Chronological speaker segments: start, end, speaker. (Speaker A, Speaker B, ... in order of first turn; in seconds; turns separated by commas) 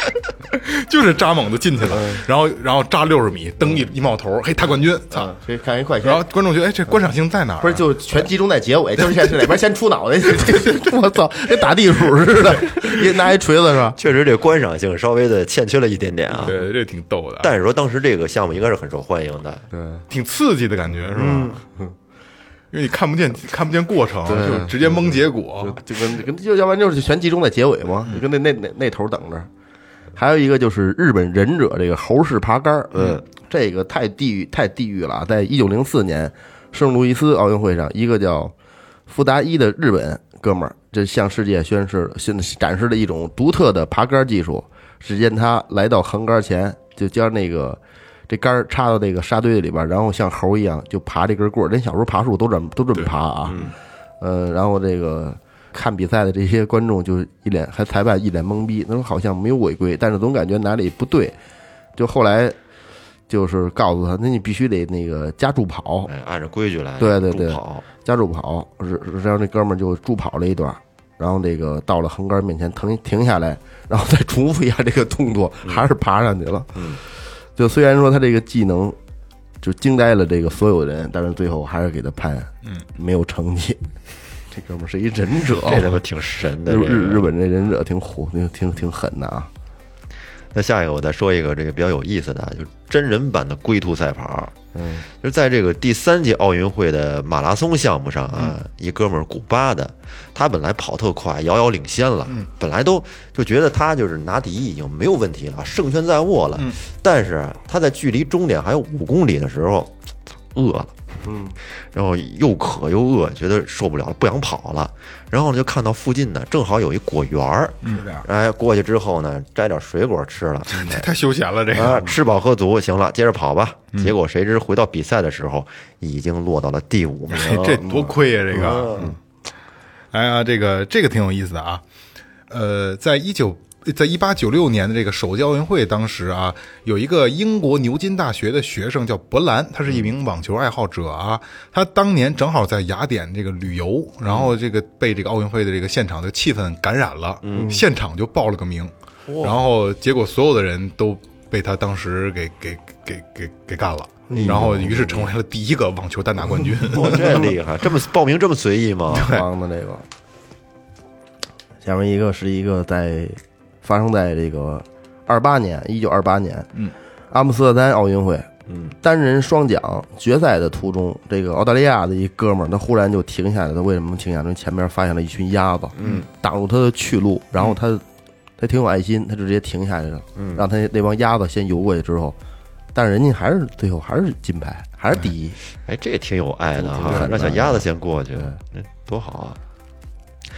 Speaker A: 0.5-5.3, Speaker B: 5.1-6.2, Speaker A: 6.0-7.9, Speaker B: 7.6-14.0, Speaker C: 14.0-16.6, Speaker A: 16.4-17.5, Speaker C: 17.4-19.6, Speaker B: 19.7-20.0, Speaker A: 20.1-21.6, Speaker C: 21.1-21.6, Speaker A: 22.7-25.8, Speaker B: 24.2-29.5, Speaker B: 30.1-38.5, Speaker C: 32.9-33.2, Speaker B: 39.1-53.6, Speaker C: 53.5-53.7, Speaker B: 54.2-61.3, Speaker B: 62.0-62.5, Speaker B: 63.3-66.1, Speaker C: 66.1-67.8, Speaker B: 67.0-77.0, Speaker C: 76.7-77.0, Speaker B: 77.5-79.0, Speaker B: 79.6-83.8, Speaker B: 84.5-85.9, Speaker C: 85.6-87.3, Speaker B: 86.6-89.5, Speaker C: 90.5-94.5, Speaker B: 94.7-95.0, Speaker C: 95.1-110.0, Speaker C: 110.5-110.9, Speaker B: 111.2-111.5, Speaker C: 111.7-121.0, Speaker A: 120.7-122.2, Speaker C: 121.7-127.9, Speaker A: 127.3-129.2, Speaker B: 127.8-128.1, Speaker C: 128.5-129.1, Speaker B: 128.7-129.1, Speaker A: 130.1-131.8, Speaker A: 132.5-157.5, Speaker C: 144.3-144.5, Speaker C: 147.4-147.8, Speaker B: 147.5-147.8, Speaker C: 149.3-149.6, Speaker B: 154.3-155.2, Speaker C: 154.4-154.9, Speaker C: 156.9-159.3, Speaker A: 159.1-159.4, Speaker B: 159.2-160.0, Speaker B: 161.8-166.7, Speaker B: 167.3-168.5, Speaker C: 168.7-168.9, Speaker B: 169.0-178.0, Speaker C: 175.9-176.3, Speaker B: 178.6-182.3, Speaker C: 180.3-180.6, Speaker B: 182.9-185.6, Speaker C: 185.8-189.6, Speaker B: 186.8-187.8